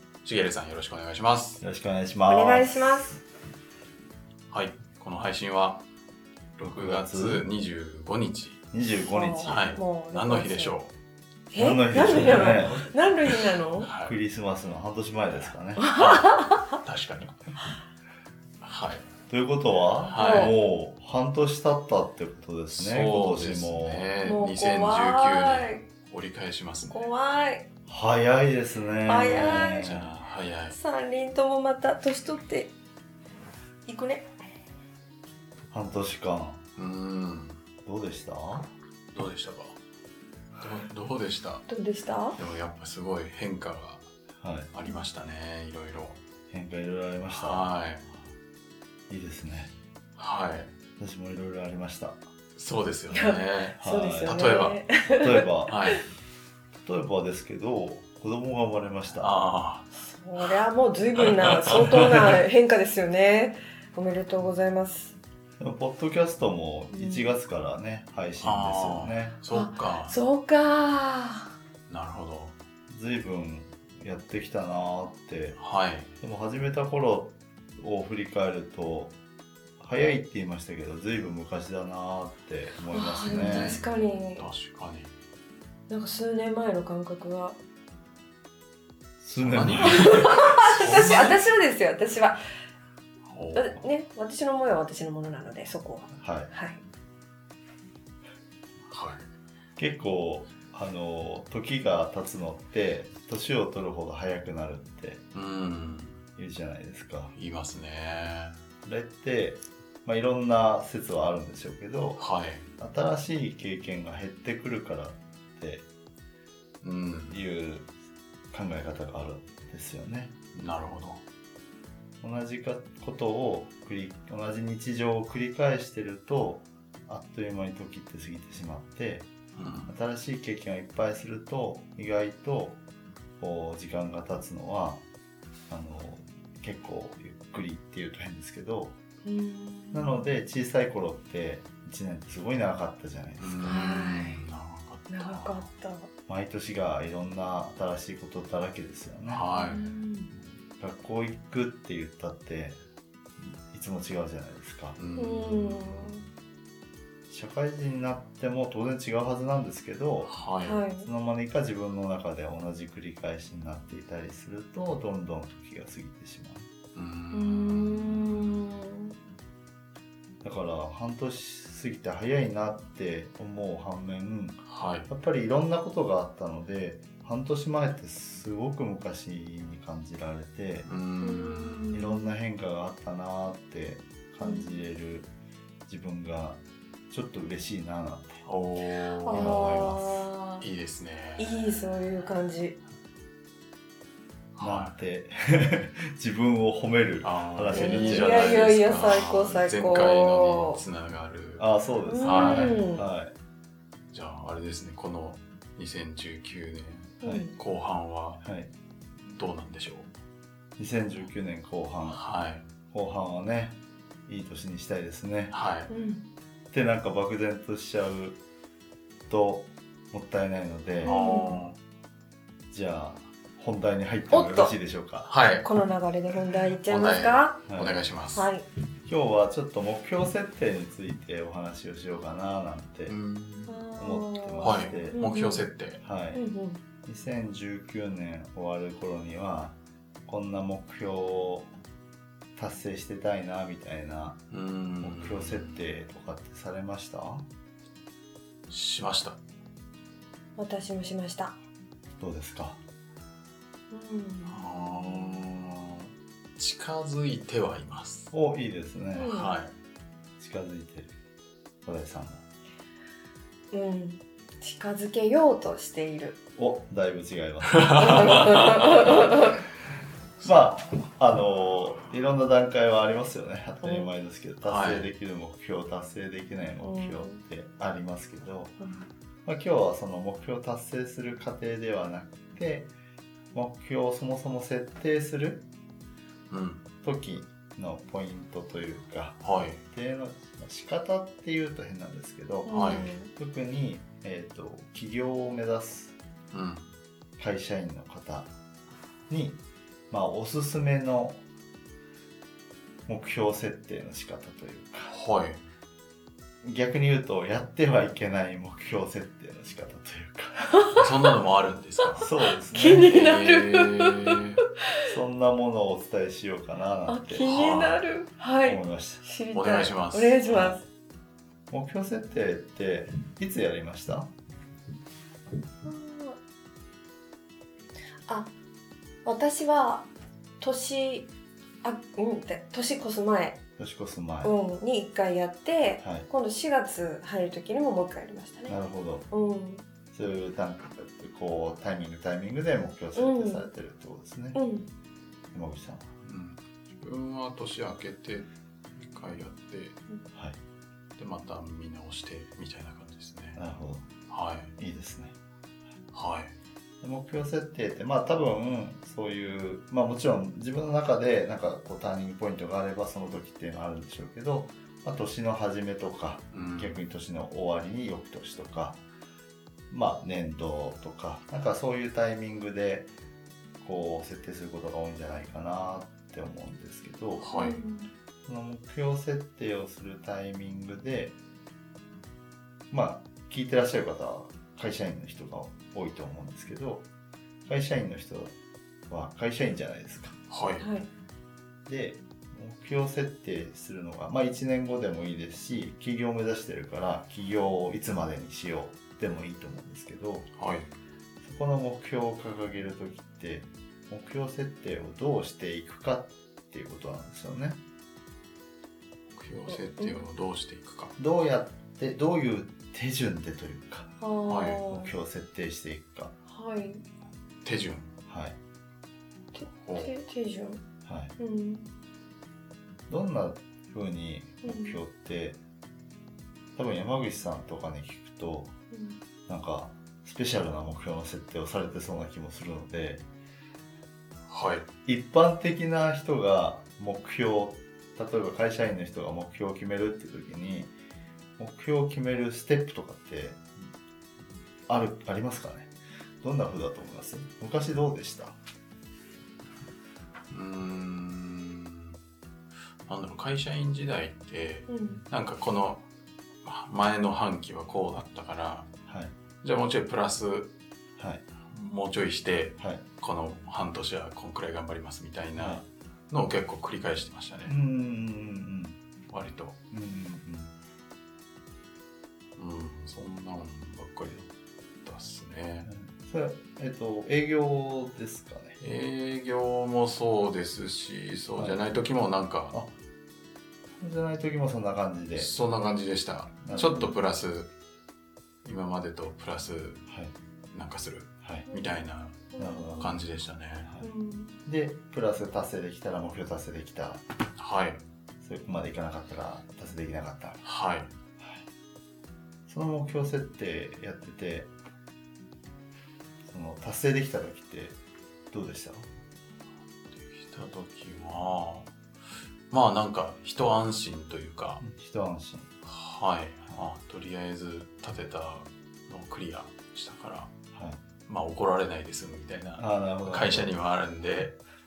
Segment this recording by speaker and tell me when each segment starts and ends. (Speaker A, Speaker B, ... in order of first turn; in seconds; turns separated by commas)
Speaker A: 0.2-1.6, Speaker B: 1.6-3.2, Speaker C: 2.3-3.1, Speaker A: 4.5-5.8, Speaker A: 6.6-8.6, Speaker B: 6.6-7.4, Speaker B: 8.7-9.6, Speaker C: 9.1-10.7, Speaker A: 9.4-10.9, Speaker C: 11.5-13.9, Speaker B: 11.6-12.8, Speaker A: 12.0-14.1, Speaker B: 14.0-15.8, Speaker C: 15.8-16.8, Speaker A: 15.9-17.3, Speaker A: 18.6-19.1, Speaker B: 19.3-24.0, Speaker A: 20.1-20.5, Speaker C: 20.2-20.6, Speaker A: 22.7-27.0, Speaker C: 24.2-25.8, Speaker C: 26.9-27.6, Speaker B: 27.9-30.1, Speaker C: 29.1-29.9, Speaker A: 29.8-30.8, Speaker C: 30.7-32.7, Speaker C: 33.9-34.2, Speaker B: 35.7-36.6, Speaker A: 36.8-37.6, Speaker B: 37.8-38.7, Speaker A: 39.1-39.8, Speaker A: 40.6-41.6, Speaker C: 41.7-42.4, Speaker A: 42.3-44.0, Speaker B: 44.4-44.7, Speaker A: 44.7-46.2, Speaker B: 46.5-47.7, Speaker A: 47.3-48.0, Speaker B: 49.1-49.7, Speaker A: 50.2-50.7, Speaker B: 51.0-52.2, Speaker A: 52.6-54.8, Speaker C: 53.1-56.0, Speaker B: 53.8-54.4, Speaker B: 55.1-55.7, Speaker A: 55.7-56.0, Speaker B: 56.8-59.3, Speaker A: 59.2-59.9, Speaker C: 59.9-65.1, Speaker A: 61.2-62.0, Speaker B: 65.6-69.4, Speaker C: 66.9-67.3, Speaker A: 68.4-70.2, Speaker C: 69.5-71.5, Speaker A: 71.9-72.5, Speaker B: 72.9-75.6, Speaker A: 75.6-76.1, Speaker B: 76.2-79.1, Speaker B: 79.8-83.8, Speaker C: 82.9-84.5, Speaker A: 83.3-85.1, Speaker C: 85.9-87.6, Speaker B: 89.2-90.1, Speaker A: 89.4-91.5, Speaker C: 89.8-92.4, Speaker A: 93.3-93.7, Speaker C: 93.5-96.8, Speaker B: 96.2-96.5, Speaker A: 98.9-99.3, Speaker B: 99.8-105.2, Speaker A: 105.3-106.2, Speaker B: 106.4-107.3, Speaker A: 107.3-108.6, Speaker B: 108.8-112.2, Speaker A: 112.2-112.6, Speaker B: 112.8-115.8, Speaker A: 116.8-117.4, Speaker B: 117.3-117.9, Speaker B: 118.5-120.3, Speaker A: 120.5-121.2, Speaker B: 122.2-129.3, Speaker A: 129.6-129.9, Speaker B: 129.9-132.8, Speaker B: 133.4-135.0, Speaker B: 135.7-138.9, Speaker C: 139.2-140.2, Speaker B: 139.9-143.6, Speaker A: 143.4-145.7, Speaker C: 143.6-144.4, Speaker C: 145.1-146.1, Speaker B: 146.3-149.4, Speaker A: 149.3-149.9, Speaker C: 149.5-150.3, Speaker B: 150.8-152.8, Speaker B: 153.4-155.0, Speaker A: 155.0-156.2, Speaker C: 155.2-156.2, Speaker B: 157.3-160.3, Speaker A: 160.2-160.8, Speaker C: 160.6-161.1, Speaker B: 161.0-166.7, Speaker A: 166.9-168.5, Speaker C: 167.3-169.1, Speaker B: 170.4-180.9, Speaker A: 174.7-175.1, Speaker A: 180.8-181.9, Speaker C: 181.2-182.3, Speaker B: 181.9-185.3, Speaker C: 184.4-184.7, Speaker B: 185.9-188.4, Speaker A: 188.4-190.0, Speaker C: 189.2-190.6, Speaker B: 189.3-190.0, Speaker A: 190.5-191.6, Speaker C: 191.4-192.8, Speaker A: 194.6-194.9, Speaker B: 194.6-198.6, Speaker A: 197.2-201.7, Speaker C: 197.7-200.8, Speaker B: 201.6-203.3, Speaker C: 202.1-203.0, Speaker A: 202.2-202.8, Speaker A: 204.1-208.4, Speaker C: 207.2-207.5, Speaker B: 208.4-208.7, Speaker A: 209.2-210.1, Speaker B: 210.8-212.2, Speaker A: 212.1-212.7, Speaker B: 212.9-215.5, Speaker A: 215.5-215.9, Speaker C: 215.9-216.2, Speaker B: 216.7-218.4, Speaker B: 219.3-221.2, Speaker A: 221.0-221.8, Speaker C: 221.0-221.6, Speaker B: 222.7-225.3, Speaker C: 224.3-224.7, Speaker A: 225.3-225.7, Speaker C: 225.6-227.6, Speaker A: 226.8-228.5, Speaker B: 227.7-228.0, Speaker C: 228.3-228.6, Speaker B: 229.1-233.1, Speaker A: 233.1-233.8, Speaker C: 233.7-235.7, Speaker B: 234.0-235.2, Speaker A: 234.6-236.0, Speaker B: 236.0-236.4, Speaker C: 236.3-236.8, Speaker B: 237.0-241.7, Speaker B: 242.6-244.4, Speaker A: 244.5-245.8, Speaker B: 245.0-247.4, Speaker A: 248.7-249.4, Speaker C: 250.6-251.6, Speaker B: 252.2-252.8, Speaker C: 253.9-255.4, Speaker A: 254.5-258.3, Speaker B: 258.3-259.3, Speaker C: 259.1-259.5, Speaker A: 259.3-259.7, Speaker B: 260.4-261.1, Speaker B: 261.8-262.4, Speaker C: 263.7-266.4, Speaker B: 266.6-269.1, Speaker A: 267.7-268.9, Speaker C: 268.0-269.6, Speaker B: 270.4-278.7, Speaker C: 273.8-274.1, Speaker A: 274.6-275.1, Speaker C: 276.8-277.4, Speaker C: 278.8-279.1, Speaker B: 279.4-282.9, Speaker B: 283.5-285.7, Speaker A: 286.5-286.8, Speaker B: 287.0-296.2, Speaker A: 289.4-289.8, Speaker C: 292.6-293.3, Speaker A: 292.7-293.1, Speaker A: 296.5-296.9, Speaker B: 297.4-298.5, Speaker B: 299.3-301.4, Speaker B: 303.1-305.1, Speaker A: 305.1-305.6, Speaker B: 306.6-310.7, Speaker A: 310.9-312.3, Speaker B: 312.2-313.1, Speaker C: 312.7-314.4, Speaker A: 312.9-314.6, Speaker B: 315.1-317.7, Speaker C: 317.1-320.8, Speaker A: 317.4-318.0, Speaker B: 318.6-319.2, Speaker A: 319.5-320.6, Speaker B: 320.5-320.8, Speaker B: 321.7-324.3, Speaker C: 325.8-326.4, Speaker C: 329.2-330.1, Speaker C: 330.6-331.3, Speaker C: 331.8-333.6, Speaker B: 333.8-334.5, Speaker C: 334.4-339.8, Speaker B: 338.7-339.2, Speaker B: 340.1-344.6, Speaker C: 343.1-343.7, Speaker C: 344.5-344.9, Speaker B: 345.5-346.1, Speaker A: 346.2-350.0, Speaker A: 351.2-353.6, Speaker B: 353.6-354.1, Speaker A: 354.3-354.7, Speaker B: 354.8-355.3, Speaker A: 356.1-356.5, Speaker B: 357.0-369.0, Speaker A: 366.5-367.0, Speaker B: 369.9-373.1, Speaker B: 373.8-377.4, Speaker A: 377.4-377.8, Speaker C: 377.5-378.1, Speaker B: 378.4-381.3, Speaker B: 382.9-387.0, Speaker B: 387.7-388.5, Speaker B: 389.1-390.4, Speaker A: 390.5-390.9, Speaker C: 390.8-391.1, Speaker B: 391.9-400.5, Speaker A: 400.6-400.9, Speaker B: 401.4-407.8, Speaker A: 409.4-411.1, Speaker C: 409.7-410.2, Speaker B: 411.2-414.1, Speaker C: 414.2-415.1, Speaker A: 414.5-414.8, Speaker B: 414.9-416.3, Speaker C: 416.5-417.0, Speaker A: 417.6-418.1, Speaker B: 418.3-418.6, Speaker C: 419.5-420.8, Speaker A: 419.8-420.1, Speaker B: 421.0-421.3, Speaker C: 421.4-421.9, Speaker B: 423.1-425.6, Speaker C: 424.6-425.0, Speaker B: 426.8-428.7, Speaker C: 428.9-429.2, Speaker B: 429.5-433.2, Speaker A: 434.5-434.9, Speaker B: 435.1-440.9, Speaker B: 441.6-443.6, Speaker B: 444.9-448.6, Speaker A: 450.5-452.2, Speaker A: 453.1-456.0, Speaker C: 454.9-455.2, Speaker A: 456.6-458.9, Speaker B: 459.1-459.3, Speaker A: 459.6-460.7, Speaker B: 461.2-461.4, Speaker A: 461.7-467.8, Speaker B: 465.6-465.8, Speaker B: 467.7-469.0, Speaker A: 469.3-469.8, Speaker B: 469.9-470.7, Speaker A: 472.6-474.5, Speaker A: 475.0-475.9, Speaker B: 475.9-478.8, Speaker A: 478.8-482.7, Speaker B: 484.0-485.5, Speaker A: 485.4-487.7, Speaker B: 486.6-487.1, Speaker A: 488.6-490.0, Speaker B: 490.1-490.3, Speaker A: 490.7-493.9, Speaker C: 492.5-493.1, Speaker B: 492.6-493.2, Speaker C: 494.0-494.5, Speaker B: 494.6-497.2, Speaker A: 497.6-498.0, Speaker B: 498.4-500.6, Speaker A: 500.6-501.1, Speaker B: 502.7-504.7, Speaker B: 506.4-508.0, Speaker B: 508.5-509.1, Speaker A: 510.1-511.9, Speaker A: 512.7-514.8, Speaker B: 514.8-515.7, Speaker A: 515.8-520.5, Speaker B: 520.7-521.0, Speaker A: 521.3-524.6, Speaker B: 522.8-523.7